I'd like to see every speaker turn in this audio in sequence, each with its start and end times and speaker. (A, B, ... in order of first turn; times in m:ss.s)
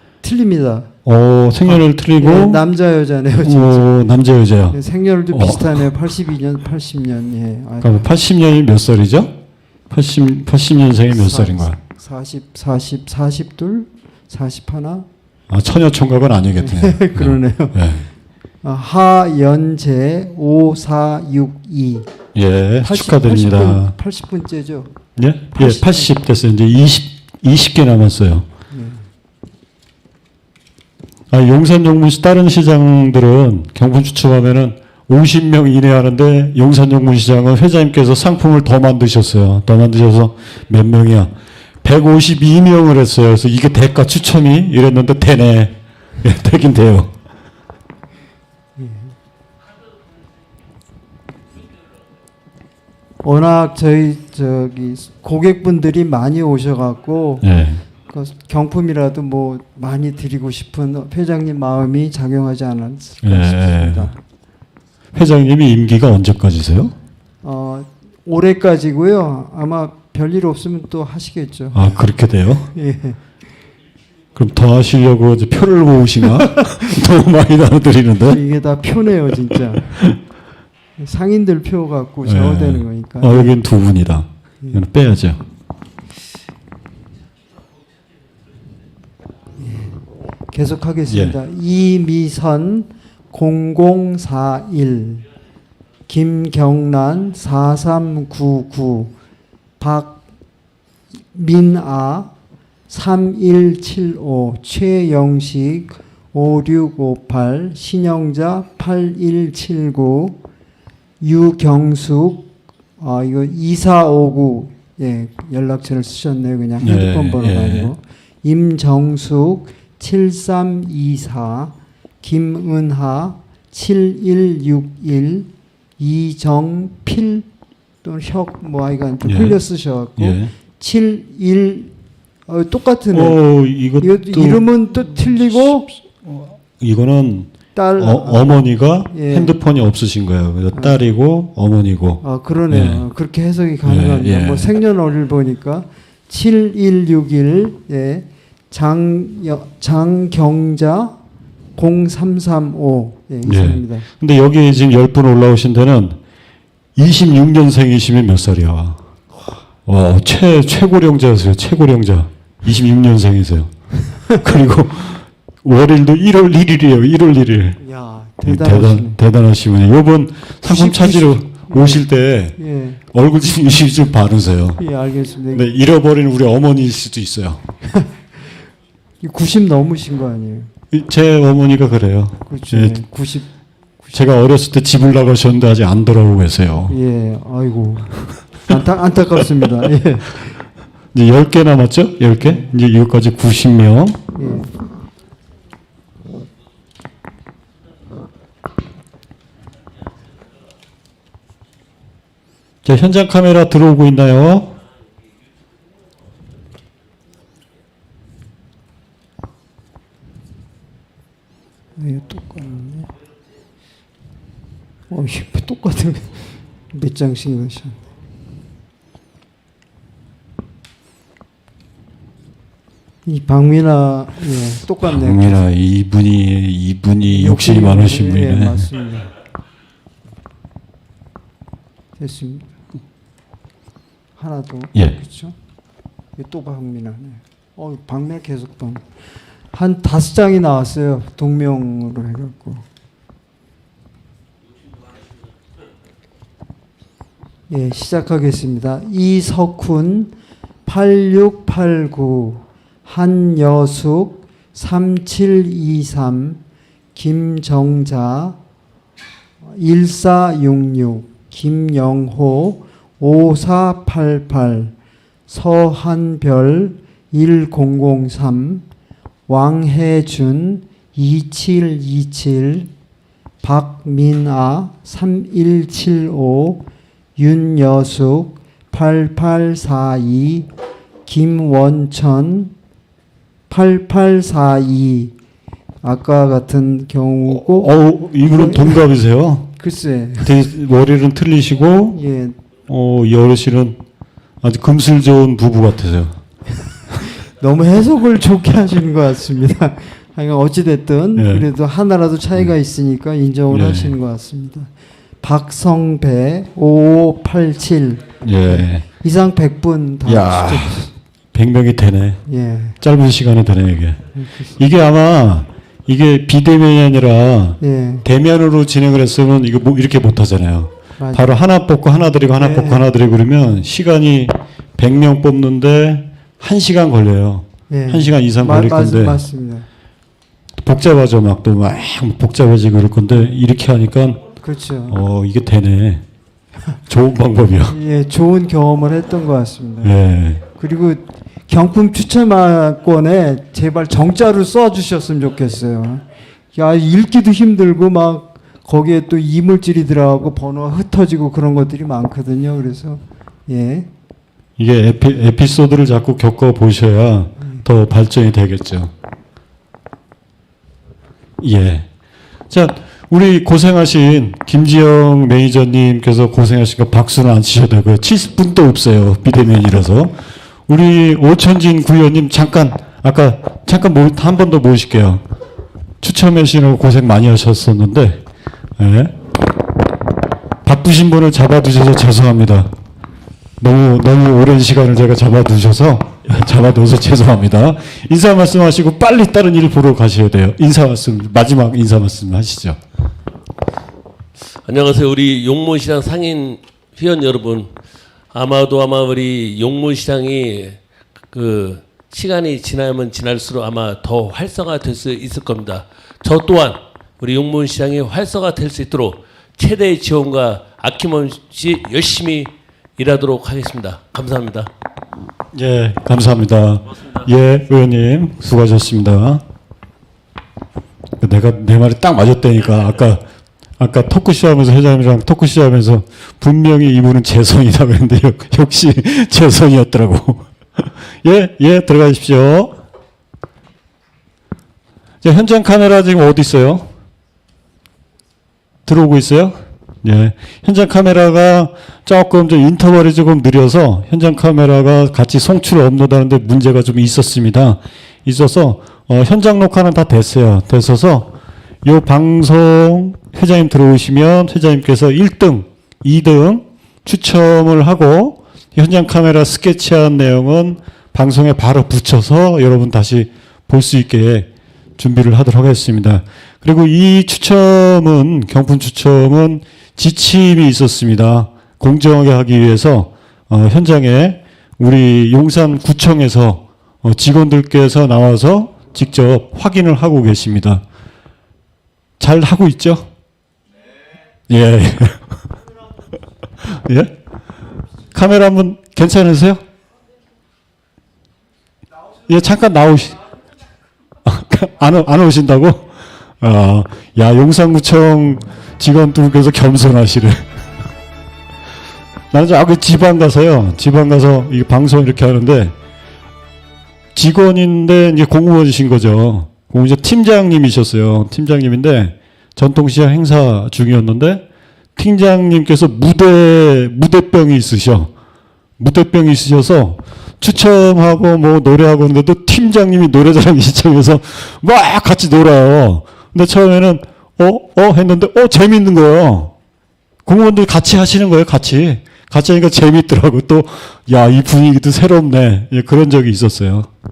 0:00.2-0:00.9 A
0:01.0-0:02.6 B
0:01.6-0:04.1 A
0:03.4-0:04.8 B
0:04.7-0:08.0 A
0:05.3-0:05.8 B
0:07.8-0:09.4 B
0:09.9-0:11.8 B
0:11.1-0:15.1 A
0:15.5-0:18.1 B
0:16.6-0:17.8 A
0:18.6-0:22.1 A
0:22.3-0:23.9 B
0:22.8-0:25.0 A
0:25.2-0:28.4 B
0:25.5-0:26.2 A
0:28.7-0:29.0 A
0:31.3-0:47.1 B
0:48.8-0:49.1 A
0:53.2-1:04.2 A
0:57.4-0:57.8 B
1:03.2-1:04.1 B
1:05.1-1:06.9 B
1:07.4-1:12.0 A
1:11.7-1:12.7 B
1:12.6-1:13.2 A
1:14.3-1:18.4 B
1:16.2-1:16.7 A
1:18.2-1:20.1 A
1:21.0-1:23.6 A
1:22.2-1:25.4 B
1:29.6-1:35.2 A
1:31.1-1:31.4 B
1:36.1-1:39.1 A
1:39.8-1:40.2 A
1:41.3-1:42.3 A
1:42.9-1:50.4 A
1:51.2-2:07.5 A
1:56.8-1:57.9 B
2:08.0-2:11.9 A
2:09.2-2:09.6 B
2:10.2-2:10.5 B
2:12.5-2:13.4 A
2:13.1-2:14.6 B
2:14.0-2:15.9 A
2:16.8-2:23.0 B
2:17.7-2:19.6 A
2:20.7-2:21.0 A
2:22.2-2:31.2 A
2:23.8-2:24.7 B
2:31.8-2:34.1 A
2:33.4-2:36.2 B
2:37.0-2:39.0 B
2:39.8-2:43.7 B
2:44.3-2:47.8 B
2:47.8-2:49.2 A
2:48.4-2:52.6 B
2:50.6-2:53.0 A
2:53.1-2:54.8 B
2:54.8-2:55.7 A
2:55.5-2:57.6 B
2:57.9-2:58.1 A
2:59.2-3:00.7 A
3:00.9-3:03.0 B
3:02.5-3:03.5 A
3:04.1-3:07.0 B
3:06.9-3:10.6 A
3:11.1-3:14.2 B
3:14.3-3:14.7 A
3:22.8-3:24.8 B
3:32.0-3:33.1 A
3:35.1-3:38.0 A
3:43.2-3:45.6 A
3:45.0-3:48.9 B
3:47.3-3:49.3 A
3:52.2-3:52.7 A
3:54.4-3:55.6 A
3:56.3-3:59.1 A
3:59.7-4:02.8 A
4:07.7-4:10.3 A
4:10.8-4:16.6 A
4:17.1-4:18.6 A
4:19.6-4:24.9 A
4:25.5-4:28.8 A
4:29.5-4:32.9 A
4:33.6-4:36.8 A
4:37.4-4:40.7 A
4:41.2-4:42.7 A
4:43.7-4:45.3 A
4:46.0-4:47.9 A
4:47.5-4:49.7 B
4:48.4-4:49.0 A
4:49.8-4:50.6 A
4:50.4-4:52.2 B
4:52.1-4:52.6 A
4:52.9-4:54.0 B
4:54.6-4:56.4 B
4:57.4-5:04.9 A
5:01.4-5:01.7 B
5:03.7-5:04.1 B
5:05.4-5:11.1 A
5:08.4-5:09.0 B
5:10.2-5:12.4 B
5:12.4-5:13.0 A
5:13.0-5:14.2 B
5:14.4-5:14.6 A
5:14.8-5:29.4 B
5:17.8-5:18.2 A
5:21.2-5:21.6 A
5:22.6-5:23.1 A
5:27.9-5:29.9 A
5:30.8-5:34.4 B
5:34.6-5:35.2 A
5:35.1-5:36.2 B
5:37.1-5:38.0 B
5:37.9-5:40.1 A
5:40.0-5:40.6 B
5:40.7-5:54.1 A
5:54.8-5:59.1 B
6:01.6-6:02.1 B
6:02.7-6:15.4 B
6:16.2-6:18.4 B
6:19.0-6:19.3 B
6:20.8-6:22.9 B
6:23.8-6:33.0 B
6:34.8-6:38.0 C
6:38.5-6:54.9 C
6:55.7-6:59.6 B
7:01.4-7:03.4 B
7:04.0-7:12.9 B
7:15.4-7:17.1 B
7:19.0-8:01.0 B
8:02.4-8:03.3 B
8:04.7-8:05.6 B
8:06.8-8:07.3 B
8:08.3-8:09.8 B
8:12.4-8:13.4 B
8:14.4-8:20.6 B
8:22.5-8:26.0 B
8:27.3-8:34.6 B
8:35.2-8:38.3 B
8:39.0-8:49.7 B
8:50.4-8:57.1 B